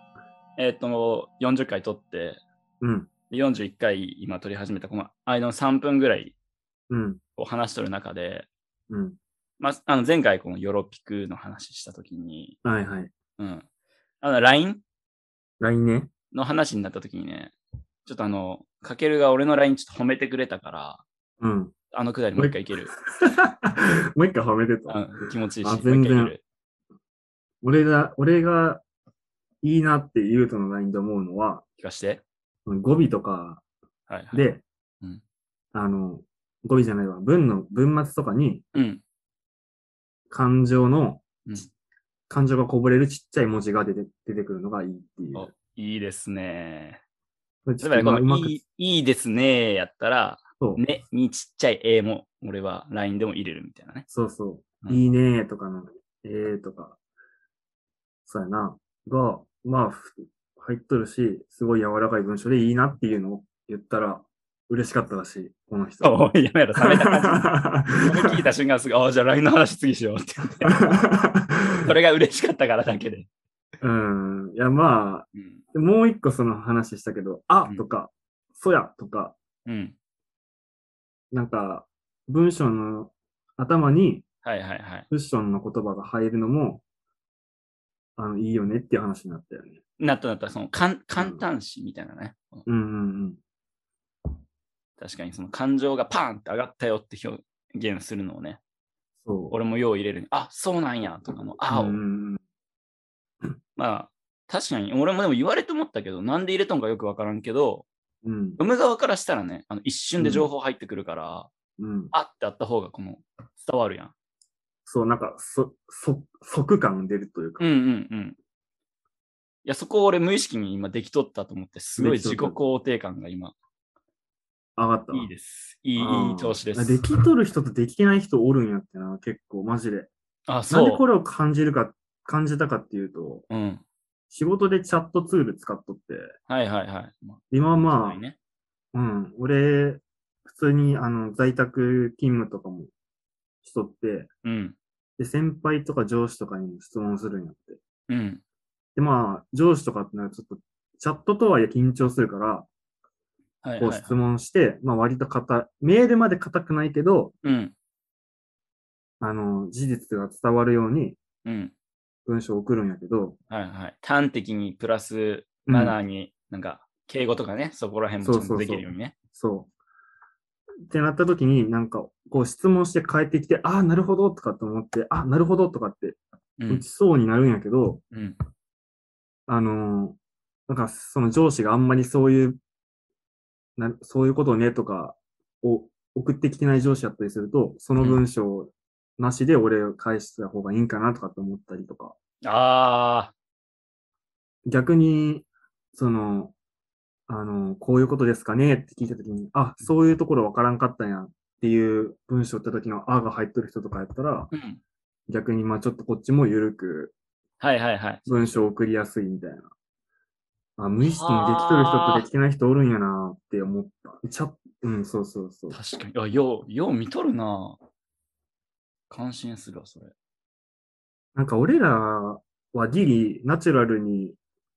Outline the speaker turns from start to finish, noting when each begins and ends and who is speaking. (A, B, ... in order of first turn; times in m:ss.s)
0:00.6-0:02.4 A
0:02.8-0:03.1 B
0:03.3-0:06.4 A
0:06.9-0:07.2 B
0:07.4-0:08.5 A
0:08.9-0:09.2 B
0:09.6-0:12.6 A
0:12.6-0:13.1 B
0:13.4-0:13.7 A
0:14.2-0:14.8 A
0:15.6-0:16.1 B
0:16.3-0:17.6 A
0:18.1-0:21.0 A
0:21.4-0:21.7 B
0:21.9-0:22.9 A
0:22.4-0:25.0 B
0:24.9-0:26.4 A
0:25.6-0:26.4 B
0:27.6-0:28.8 B
0:29.6-0:31.6 B
0:31.8-0:32.2 A
0:32.7-0:33.6 B
0:34.1-0:34.5 A
0:34.3-0:34.6 B
0:35.7-0:38.6 B
0:38.7-0:39.0 A
0:40.3-0:41.6 B
0:42.3-0:45.5 B
0:45.3-0:47.0 A
0:47.7-0:48.6 B
0:47.8-0:54.0 A
0:54.1-0:57.0 B
0:58.3-1:08.4 B
1:06.0-1:11.0 A
1:10.6-1:11.6 B
1:11.8-1:13.3 A
1:13.8-1:19.4 B
1:15.3-1:15.6 A
1:19.7-1:20.0 A
1:21.3-1:24.2 B
1:24.4-1:25.1 A
1:25.1-1:26.8 B
1:28.2-1:29.8 B
1:30.0-1:32.6 A
1:31.2-1:31.4 B
1:32.7-1:33.4 B
1:35.0-1:38.6 A
1:39.2-1:39.6 B
1:39.5-1:42.0 A
1:41.7-1:42.4 B
1:43.8-1:47.9 A
1:48.2-1:48.6 B
1:48.6-1:51.5 A
1:50.2-1:50.5 B
1:51.8-1:52.1 B
1:52.1-1:54.1 A
1:54.9-1:57.7 B
1:57.6-1:58.4 A
1:59.6-2:03.5 A
2:02.0-2:02.6 B
2:04.8-2:05.3 B
2:05.1-2:07.0 A
2:06.0-2:10.1 B
2:10.5-2:11.0 A
2:10.7-2:13.4 B
2:13.5-2:13.8 A
2:14.3-2:16.3 B
2:16.5-2:18.4 A
2:17.5-2:18.2 B
2:18.9-2:22.9 B
2:23.6-2:24.3 B
2:24.4-2:24.8 A
2:25.2-2:27.8 B
2:28.1-2:28.4 A
2:29.0-2:32.7 B
2:33.6-2:34.2 A
2:33.8-2:37.4 B
2:37.4-2:37.7 A
2:39.2-2:41.2 B
2:41.4-2:41.7 A
2:42.3-2:43.4 B
2:43.5-2:49.2 A
2:45.7-2:46.0 B
2:48.2-2:49.7 B
2:50.9-2:56.2 B
2:56.6-2:56.8 A
2:56.7-2:58.0 B
2:58.1-2:58.4 A
2:59.5-3:00.2 B
3:00.7-3:02.6 B
3:03.8-3:12.1 B
3:12.4-3:13.3 A
3:14.7-3:16.5 B
3:17.3-3:24.5 B
3:24.5-3:24.8 A
3:25.3-3:27.1 B
3:27.6-3:28.6 A
3:28.3-3:29.7 B
3:30.8-3:35.8 B
3:31.0-3:32.3 A
3:35.7-3:37.8 A
3:39.1-3:40.1 A
3:41.4-3:44.4 B